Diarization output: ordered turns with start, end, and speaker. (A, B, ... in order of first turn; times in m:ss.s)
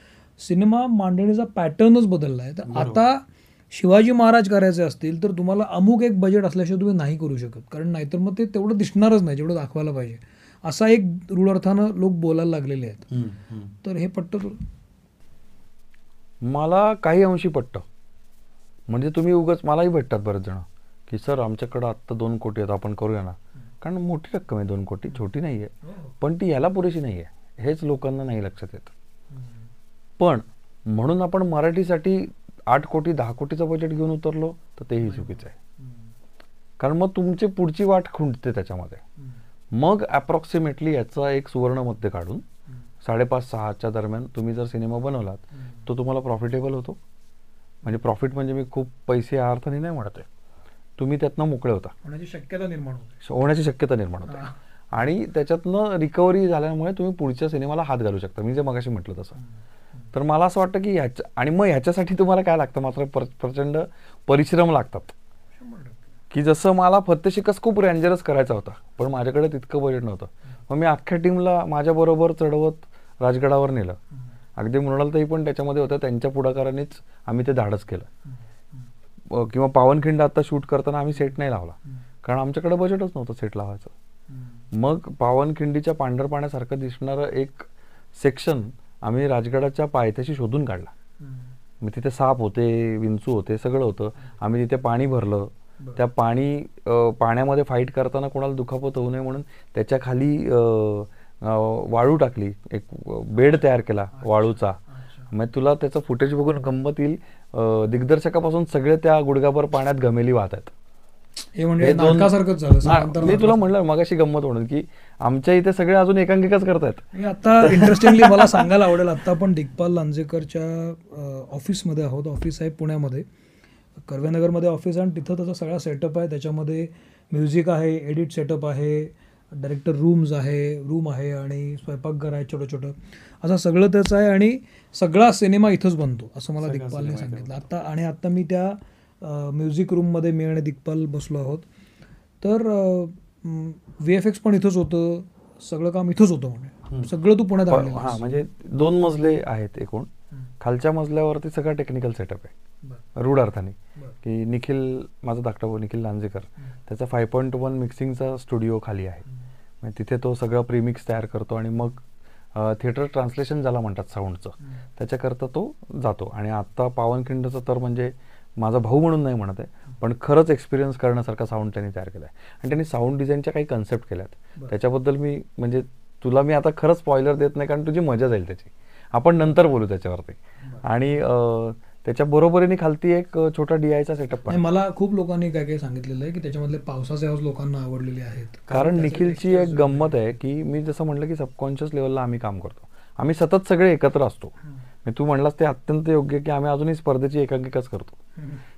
0:00.4-0:13.1 A
0:02.7-0:03.0 B
0:13.1-0:13.7 B
0:13.8-0:14.6 A
0:16.4-0:17.9 B
0:18.9-0:28.9 B
0:25.9-0:26.2 A
0:29.3-0:29.7 A
0:30.2-0:35.5 B
0:35.0-0:36.1 A
0:36.8-0:39.0 B
0:39.7-0:42.4 B
0:43.0-0:47.0 B
0:45.6-0:45.8 A
0:47.8-0:50.3 B
0:51.0-0:51.9 B
0:52.0-0:53.2 A
0:53.2-0:59.4 B
0:54.3-0:54.6 A
1:00.1-1:05.2 B
1:05.6-1:06.0 A
1:06.3-1:14.0 B
1:14.6-1:18.1 B
1:19.3-1:23.9 B
1:24.3-1:24.6 A
1:24.7-1:30.9 B
1:31.2-1:31.5 A
1:31.8-1:44.8 B
1:44.2-1:45.3 A
1:45.3-1:50.7 B
1:51.6-1:53.7 A
1:51.8-1:57.1 B
1:57.1-2:03.3 A
1:57.6-1:58.7 B
2:04.0-2:21.7 A
2:16.6-2:17.6 B
2:22.4-2:28.3 A
2:27.7-2:30.1 B
2:30.6-2:32.5 B
2:33.2-2:39.2 B
2:39.8-2:42.0 B
2:42.5-3:04.6 B
3:04.5-3:10.2 A
3:08.7-3:14.5 B
3:15.0-3:18.2 B